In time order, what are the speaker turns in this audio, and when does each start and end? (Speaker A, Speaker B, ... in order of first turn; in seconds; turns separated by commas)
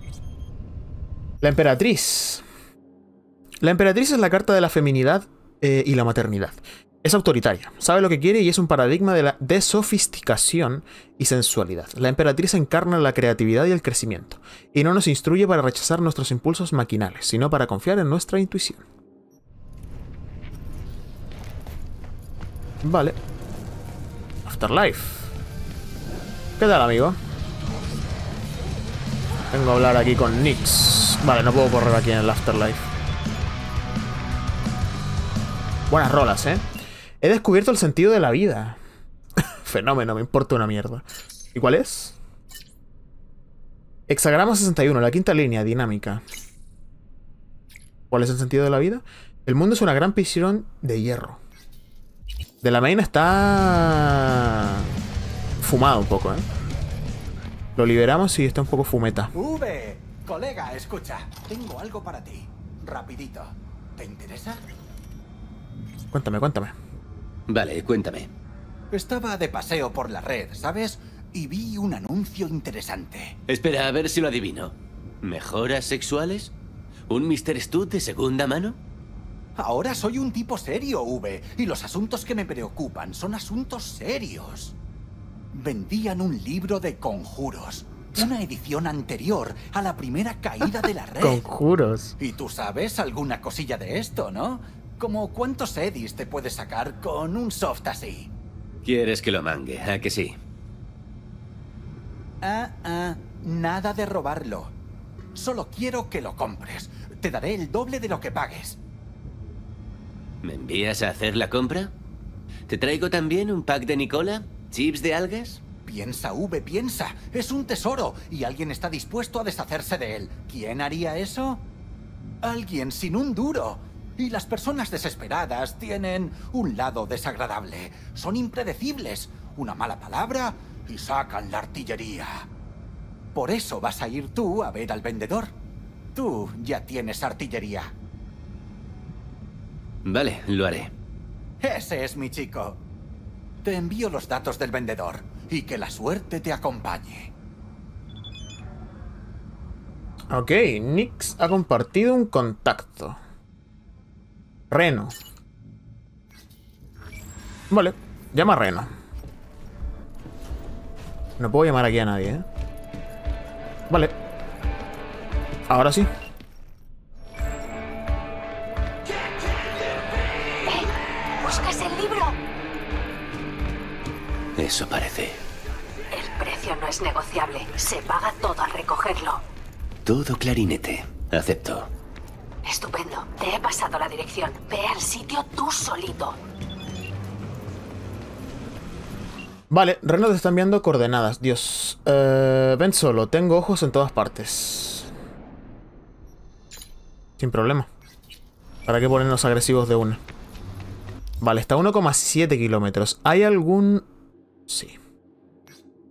Speaker A: 1.4-2.4, Speaker A: 3.6-18.8, Speaker A: 22.8-23.2, Speaker A: 24.5-25.3, Speaker A: 26.6-27.2, Speaker A: 29.5-32.9, Speaker A: 35.9-36.6, Speaker A: 37.2-38.8, Speaker A: 39.4-42.2, Speaker A: 44.1-46.2, Speaker A: 48.1-51.4, Speaker A: 52.6-54.9, Speaker A: 55.6-56.5, Speaker A: 57.8-59.3, Speaker B: 59.3-64.6, Speaker A: 66.1-66.7, Speaker C: 67.5-68.3, Speaker B: 68.9-73.4, Speaker C: 73.5-76.5, Speaker C: 77.1-78.8, Speaker B: 79.6-84.8, Speaker B: 85.5-91.4, Speaker A: 91.2-92.2, Speaker B: 92.2-98.3, Speaker C: 98.8-100.4, Speaker B: 102.4-104.7, Speaker B: 105.3-108.8, Speaker C: 110.4-111.9, Speaker C: 112.7-115.6, Speaker B: 115.8-121.6, Speaker B: 122.4-132.5, Speaker B: 133.3-135.5, Speaker B: 136.2-137.9, Speaker C: 140.1-140.9, Speaker B: 141.6-142.8, Speaker B: 143.6-147.3, Speaker A: 150.3-153.2, Speaker A: 154.7-155.2, Speaker A: 157.7-158.9, Speaker A: 161.4-162.4, Speaker A: 165.7-166.1, Speaker D: 171.4-172.4, Speaker C: 174.6-175.4, Speaker D: 176.1-179.4, Speaker C: 180.1-181.9, Speaker D: 182.6-186.4, Speaker A: 189.7-195.1, Speaker A: 197.4-197.9, Speaker A: 198.9-200.2, Speaker A: 201.4-204.1, Speaker A: 204.7-205.0